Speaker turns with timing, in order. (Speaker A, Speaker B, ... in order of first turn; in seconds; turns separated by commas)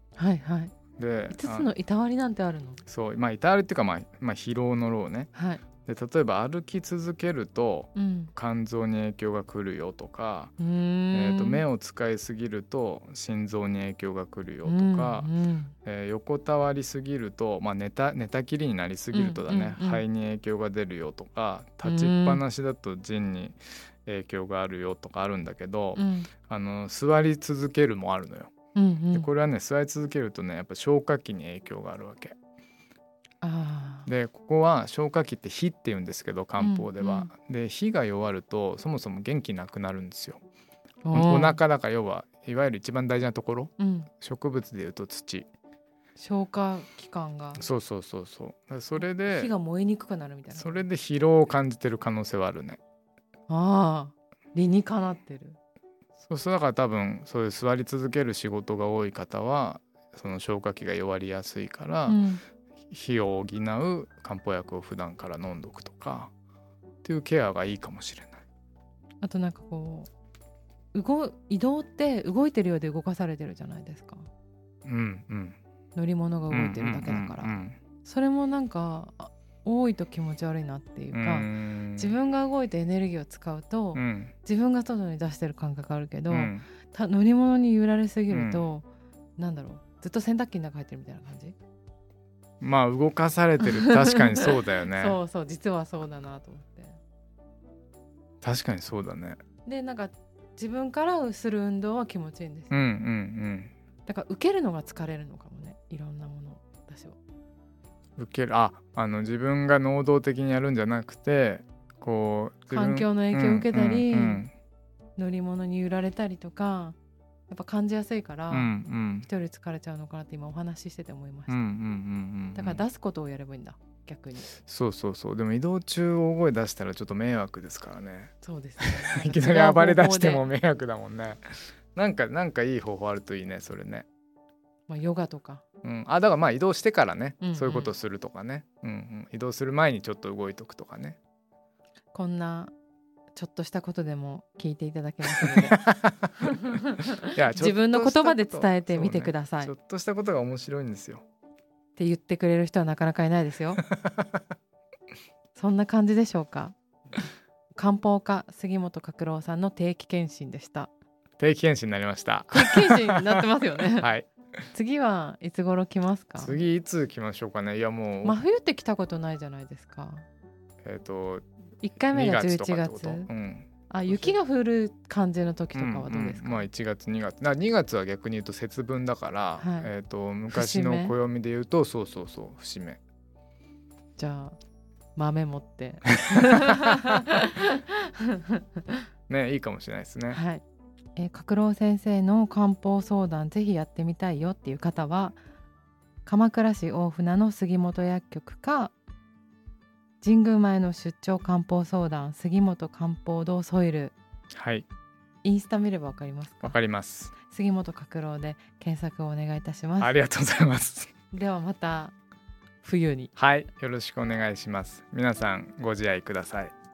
Speaker A: 0.2-0.8, Speaker B: 0.9-1.7, Speaker A: 1.3-2.8, Speaker B: 2.9-10.5, Speaker A: 5.3-5.6, Speaker A: 7.9-8.3, Speaker A: 10.6-11.6, Speaker B: 11.1-15.3, Speaker A: 14.6-15.7, Speaker B: 15.8-28.5, Speaker A: 19.1-20.0, Speaker A: 21.8-22.4, Speaker A: 25.9-26.3, Speaker A: 28.7-29.3, Speaker B: 29.1-32.4, Speaker A: 33.4-34.1, Speaker B: 34.1-40.4, Speaker A: 36.6-37.3, Speaker A: 41.0-41.6, Speaker B: 41.1-45.5, Speaker A: 43.8-44.1, Speaker A: 46.2-47.6, Speaker B: 47.6-49.5, Speaker A: 49.0-50.8, Speaker B: 50.5-52.8, Speaker A: 53.5-55.6, Speaker B: 56.2-62.2, Speaker A: 62.1-62.4, Speaker B: 62.9-66.3, Speaker B: 67.0-68.4, Speaker A: 69.2-70.1, Speaker A: 70.9-74.3, Speaker B: 74.8-75.6, Speaker A: 76.0-77.5, Speaker B: 76.5-77.8, Speaker A: 78.0-88.8, Speaker B: 81.1-82.1, Speaker B: 83.9-84.3, Speaker B: 86.3-86.6, Speaker B: 88.3-88.6, Speaker A: 89.4-91.5, Speaker B: 92.6-95.2, Speaker A: 93.6-97.0, Speaker B: 98.4-99.4, Speaker A: 99.7-102.7, Speaker B: 102.7-103.7, Speaker A: 104.0-107.2, Speaker B: 108.2-114.5, Speaker A: 112.7-114.5, Speaker A: 115.2-117.0, Speaker A: 117.5-118.7, Speaker B: 118.5-119.3, Speaker A: 119.2-121.6, Speaker B: 121.5-122.8, Speaker A: 122.5-124.5, Speaker B: 124.5-134.1, Speaker A: 128.4-130.4, Speaker A: 134.9-135.6, Speaker B: 135.8-141.2, Speaker A: 137.4-137.9, Speaker A: 142.1-142.7, Speaker A: 143.3-145.8, Speaker B: 145.3-146.5, Speaker A: 146.4-149.7, Speaker B: 147.2-151.2, Speaker A: 151.9-153.8, Speaker B: 153.9-154.4, Speaker A: 155.5-156.7, Speaker A: 157.8-160.9, Speaker B: 161.4-163.4, Speaker A: 162.5-164.1, Speaker B: 164.0-164.3, Speaker A: 164.7-166.6, Speaker B: 166.4-168.4, Speaker A: 168.2-170.2, Speaker B: 170.8-171.4, Speaker A: 171.8-173.3, Speaker B: 172.0-174.4, Speaker A: 173.9-176.7, Speaker B: 175.7-183.0, Speaker A: 179.6-179.9, Speaker A: 180.5-181.2, Speaker A: 184.2-184.6, Speaker A: 185.2-189.0, Speaker B: 189.3-190.4, Speaker A: 190.3-190.6, Speaker A: 191.2-195.4, Speaker A: 196.2-198.9, Speaker A: 200.2-204.2, Speaker B: 204.5-204.9, Speaker A: 205.4-206.7, Speaker B: 206.6-207.3, Speaker A: 207.3-210.1, Speaker B: 210.0-211.1, Speaker A: 211.3-212.1, Speaker A: 212.8-213.3, Speaker B: 213.3-216.7